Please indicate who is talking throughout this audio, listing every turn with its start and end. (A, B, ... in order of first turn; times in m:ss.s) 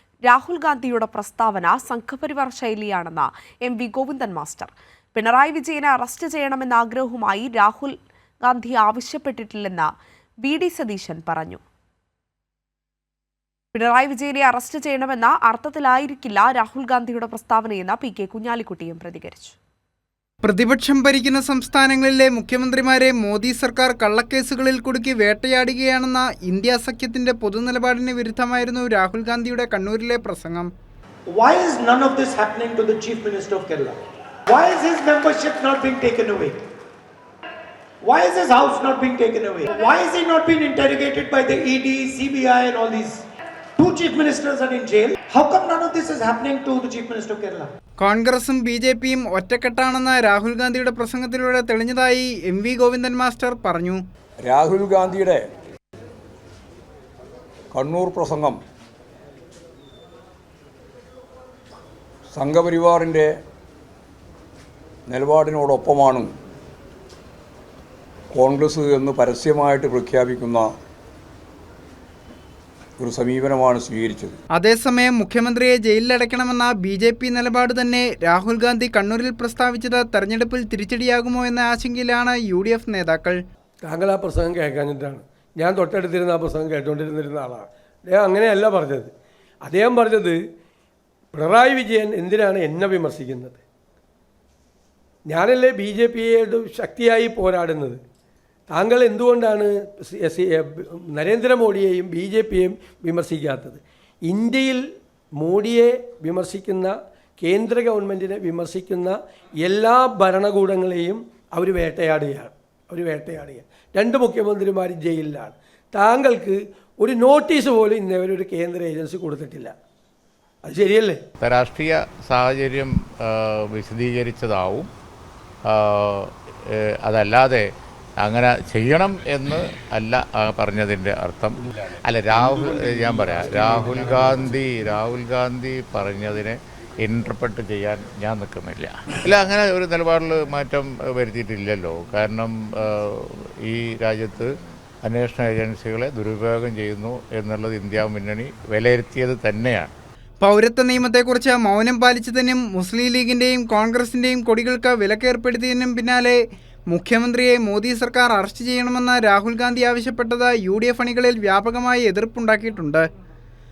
0:00.3-0:09.9 A
0:10.4-0:11.6 A
0:13.7-0:19.6 A
0:20.4-0:30.7 B
0:31.3-0:34.0 C
0:34.5-0:36.6 C
0:38.0-0:43.2 C
0:43.8-0:47.7 C
0:48.0-0:54.0 B
0:54.4-0:55.5 D
0:57.7-0:58.6 D
1:02.3-1:03.4 D
1:05.1-1:06.3 D
1:08.3-1:10.7 D
1:13.0-1:14.4 D
1:14.6-1:23.4 B
1:23.8-1:29.1 E
1:29.6-1:30.4 E
1:31.3-1:33.6 E
1:35.3-1:38.0 E
1:38.7-1:44.8 E
1:45.4-1:59.7 E
2:00.7-2:01.2 E
2:01.4-2:04.9 F
2:05.7-2:07.6 F
2:08.2-2:24.5 F
2:25.0-2:29.9 F
2:30.4-2:43.0 B